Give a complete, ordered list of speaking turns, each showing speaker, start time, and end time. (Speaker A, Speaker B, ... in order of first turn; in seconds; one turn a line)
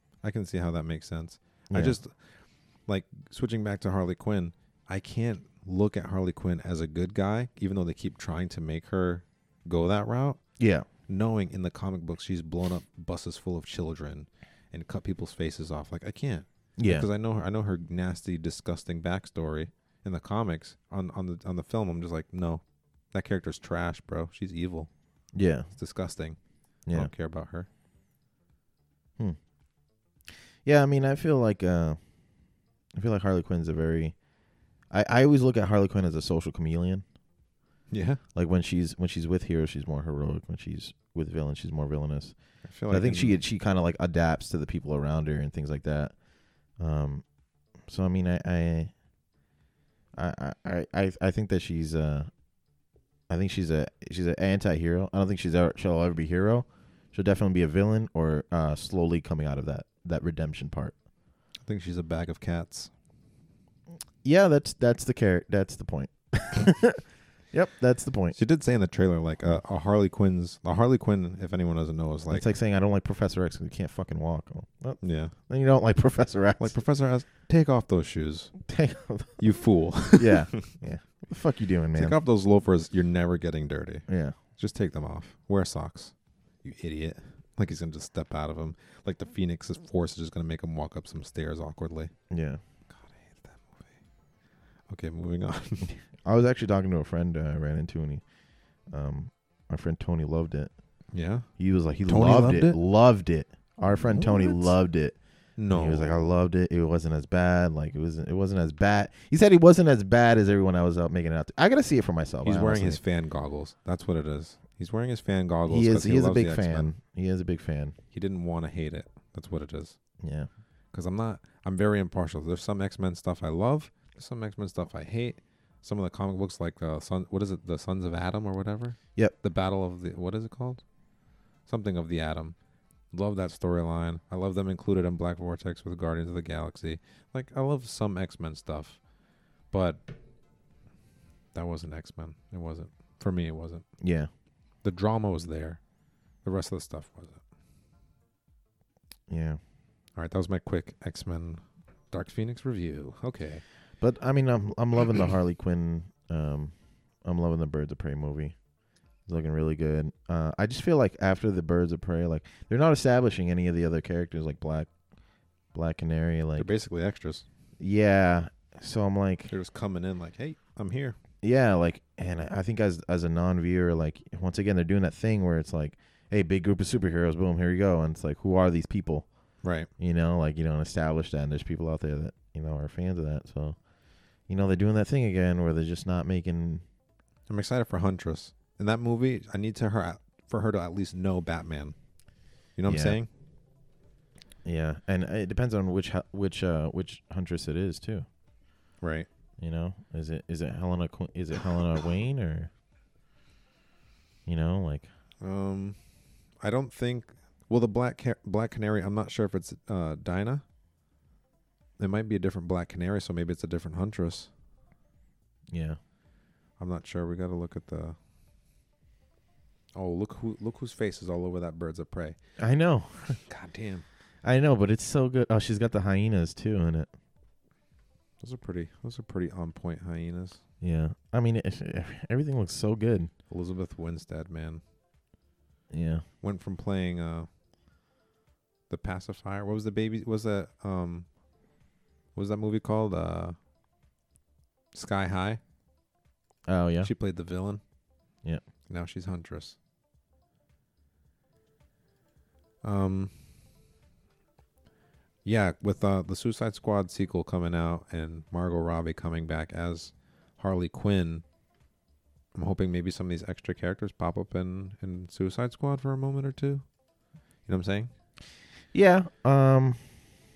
Speaker A: 0.2-10.4
Speaker B: 1.7-2.0
Speaker B: 10.6-10.9
Speaker A: 11.1-24.9
Speaker B: 16.8-17.1
Speaker B: 25.3-25.7
Speaker A: 25.7-26.4
Speaker B: 26.9-27.1
Speaker A: 26.9-27.7
Speaker B: 30.6-32.0
Speaker B: 32.9-34.1
Speaker B: 34.9-37.0
Speaker A: 37.9-38.2
Speaker B: 38.3-42.3
Speaker A: 42.6-43.4
Speaker B: 42.9-46.1
Speaker B: 46.8-47.2
Speaker B: 47.8-48.9
Speaker B: 50.1-52.3
Speaker B: 53.3-60.9
Speaker A: 61.6-62.9
Speaker B: 64.2-68.3
Speaker A: 68.3-72.5
Speaker B: 72.3-76.7
Speaker A: 75.0-75.3
Speaker A: 76.6-78.5
Speaker B: 78.6-79.4
Speaker A: 79.4-80.7
Speaker B: 80.1-82.2
Speaker A: 81.9-92.1
Speaker B: 84.1-84.3
Speaker B: 92.3-92.6
Speaker A: 92.9-93.9
Speaker A: 94.9-95.9
Speaker B: 95.8-98.2
Speaker B: 98.9-100.7
Speaker A: 101.1-101.5
Speaker B: 101.6-105.2
Speaker A: 102.1-102.8
Speaker A: 104.0-104.7
Speaker A: 105.6-106.2
Speaker B: 105.7-113.0
Speaker A: 112.4-116.9
Speaker B: 115.7-118.0
Speaker A: 118.1-120.0
Speaker B: 120.2-120.5
Speaker A: 120.9-130.8
Speaker A: 131.6-132.6
Speaker A: 133.1-139.0
Speaker A: 139.7-140.1
Speaker A: 141.5-143.9
Speaker B: 144.0-144.3
Speaker A: 144.8-145.8
Speaker A: 146.4-147.4
Speaker B: 149.3-149.6
Speaker A: 150.2-153.6
Speaker B: 154.0-158.5
Speaker B: 159.3-164.9
Speaker B: 165.7-166.7
Speaker A: 166.6-167.4
Speaker B: 167.8-169.5
Speaker A: 169.5-171.2
Speaker B: 171.4-179.3
Speaker A: 179.6-179.9
Speaker B: 180.0-183.8
Speaker B: 184.5-186.8
Speaker A: 187.5-191.9
Speaker A: 192.7-193.3
Speaker B: 192.9-193.2
Speaker B: 194.6-198.2
Speaker A: 199.0-199.3
Speaker B: 199.6-202.7
Speaker B: 204.4-205.1
Speaker A: 205.4-206.0
Speaker A: 206.6-210.6
Speaker A: 212.0-214.5
Speaker B: 215.7-216.0
Speaker A: 216.8-218.2
Speaker A: 219.9-222.4
Speaker B: 222.6-223.4
Speaker A: 223.3-224.0
Speaker B: 224.4-227.1
Speaker A: 228.4-230.6
Speaker B: 230.8-233.3
Speaker A: 233.5-234.8
Speaker B: 235.9-236.2
Speaker A: 236.4-237.5
Speaker A: 238.9-241.3
Speaker A: 242.3-243.6
Speaker A: 244.9-245.6
Speaker B: 246.7-247.1
Speaker A: 247.0-247.8
Speaker A: 248.9-249.8
Speaker A: 252.8-253.3
Speaker A: 255.4-261.4
Speaker A: 262.5-266.9
Speaker A: 267.6-268.1
Speaker B: 268.9-270.2